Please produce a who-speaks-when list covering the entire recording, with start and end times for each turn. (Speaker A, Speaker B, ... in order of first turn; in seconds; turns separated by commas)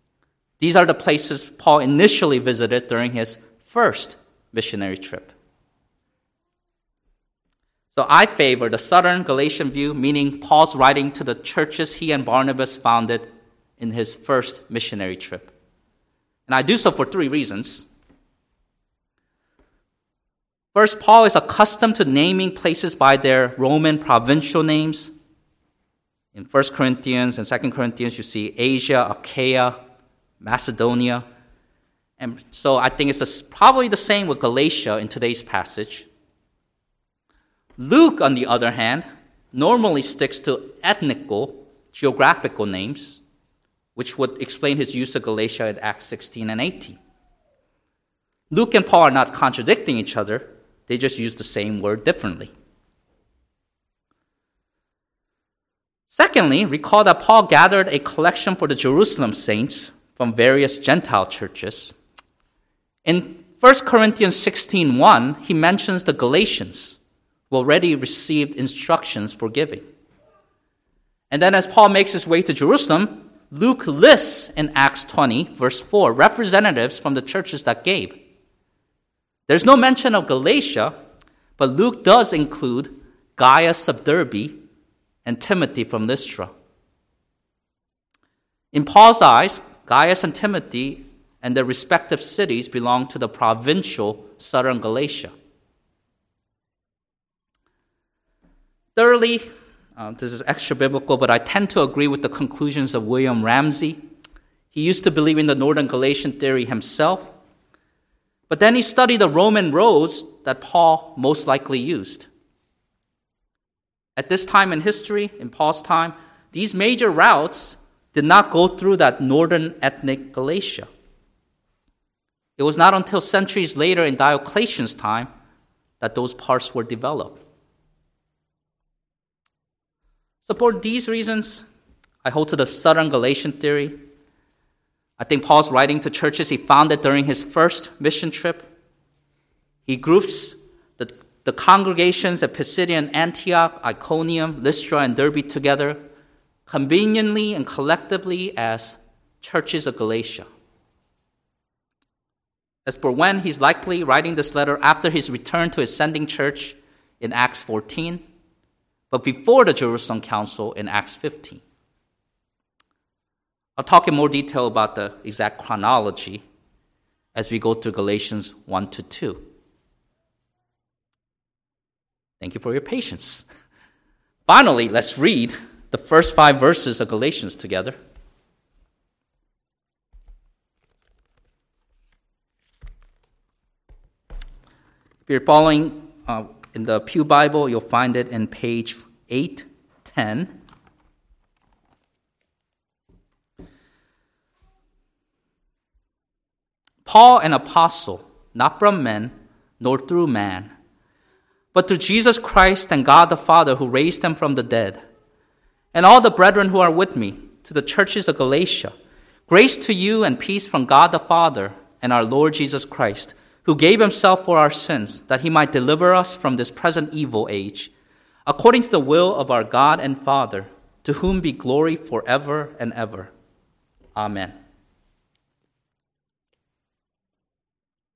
Speaker A: 0.6-5.3, Speaker A: 7.9-13.3, Speaker A: 13.8-15.5, Speaker A: 16.5-17.9, Speaker A: 20.7-25.1, Speaker A: 26.3-29.8, Speaker A: 30.4-31.2, Speaker A: 32.2-36.1, Speaker A: 37.8-43.2, Speaker A: 44.0-47.0, Speaker A: 48.5-52.5, Speaker A: 56.1-62.0, Speaker A: 63.0-67.0, Speaker A: 67.5-69.8, Speaker A: 71.3-78.2, Speaker A: 79.5-80.9, Speaker A: 81.6-84.6, Speaker A: 85.2-86.5, Speaker A: 88.7-95.3, Speaker A: 99.0-104.0, Speaker A: 104.7-107.3, Speaker A: 108.5-112.3, Speaker A: 114.2-120.9, Speaker A: 122.6-125.3, Speaker A: 126.0-127.4, Speaker A: 130.4-131.7, Speaker A: 132.2-134.0, Speaker A: 135.2-138.7, Speaker A: 139.9-146.0, Speaker A: 146.7-150.5, Speaker A: 152.9-158.2, Speaker A: 159.1-161.6, Speaker A: 163.8-166.4, Speaker A: 167.3-169.4, Speaker A: 172.4-173.4, Speaker A: 174.5-178.0, Speaker A: 185.3-190.6, Speaker A: 197.1-200.7, Speaker A: 201.7-205.0, Speaker A: 205.9-208.9, Speaker A: 209.5-217.9, Speaker A: 218.5-223.3, Speaker A: 224.2-224.5